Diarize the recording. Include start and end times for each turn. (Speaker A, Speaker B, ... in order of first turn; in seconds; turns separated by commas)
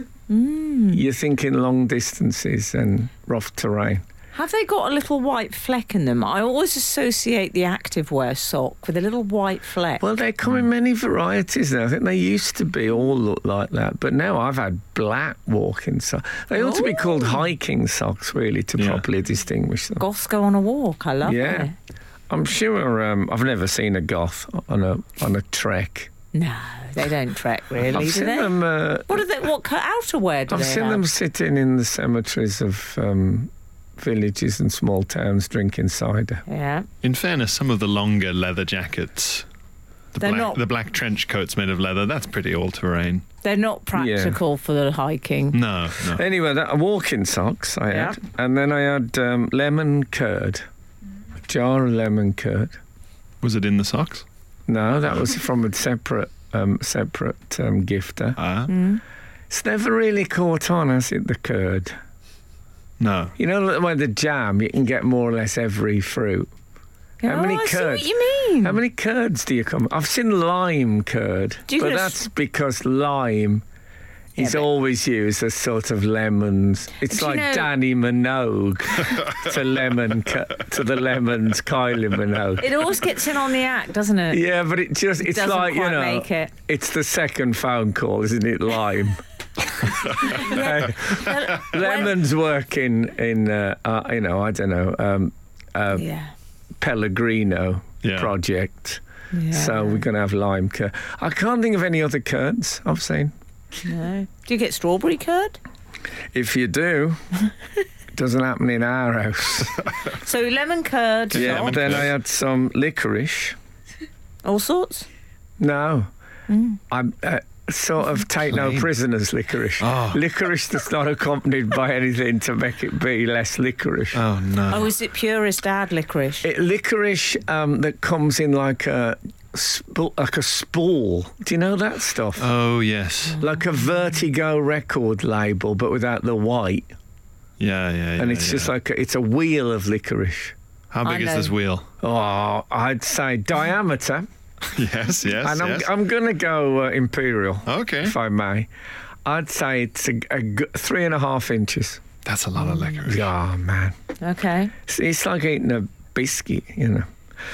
Speaker A: 0.3-1.0, Speaker B: 0.9-4.0, Speaker A: 4.3-10.1, Speaker B: 10.0-20.0, Speaker A: 16.5-17.4, Speaker C: 18.8-19.0, Speaker A: 20.0-21.7, Speaker B: 21.2-21.7, Speaker B: 22.3-26.1, Speaker A: 26.3-31.0, Speaker B: 27.9-29.2, Speaker B: 30.5-36.4, Speaker A: 36.5-36.9, Speaker C: 37.0-39.5, Speaker C: 40.1-43.2, Speaker A: 40.2-40.6, Speaker A: 43.4-45.6, Speaker B: 43.9-44.4, Speaker C: 45.5-46.2, Speaker B: 46.1-50.6, Speaker A: 47.9-48.2, Speaker B: 51.5-52.8, Speaker C: 53.4-54.2, Speaker B: 54.7-58.4, Speaker C: 58.4-58.7, Speaker A: 58.7-59.0, Speaker B: 59.5-62.0, Speaker C: 63.0-63.3, Speaker B: 63.4-66.5, Speaker A: 67.2-68.8, Speaker B: 67.2-68.1, Speaker B: 68.6-73.6, Speaker A: 71.7-72.2, Speaker B: 74.4-82.7, Speaker A: 74.4-74.7, Speaker A: 77.0-77.7, Speaker A: 82.6-84.4, Speaker B: 84.3-89.2, Speaker A: 85.2-86.5, Speaker B: 89.8-96.0, Speaker A: 90.3-92.1, Speaker A: 95.9-96.3, Speaker B: 96.8-103.3, Speaker C: 98.0-98.3, Speaker A: 99.3-100.0, Speaker A: 103.8-105.6, Speaker B: 106.3-107.2, Speaker B: 108.1-109.8, Speaker A: 110.2-112.0, Speaker C: 111.3-112.1, Speaker B: 111.3-113.6, Speaker A: 114.4-115.1, Speaker B: 115.6-116.1, Speaker A: 116.5-116.8, Speaker B: 116.9-124.2, Speaker C: 118.5-118.9, Speaker C: 119.8-120.2, Speaker C: 124.1-124.9, Speaker A: 124.7-126.5, Speaker B: 126.4-132.5, Speaker C: 132.4-133.4, Speaker B: 133.4-136.9, Speaker C: 137.6-138.7, Speaker B: 138.2-140.5, Speaker C: 140.9-141.9, Speaker A: 141.0-141.5, Speaker B: 142.0-144.3, Speaker C: 144.7-145.9, Speaker B: 145.4-148.7, Speaker C: 147.7-148.2, Speaker B: 149.2-152.0, Speaker C: 152.2-153.3, Speaker B: 153.0-153.9, Speaker A: 154.2-154.7, Speaker B: 154.8-157.1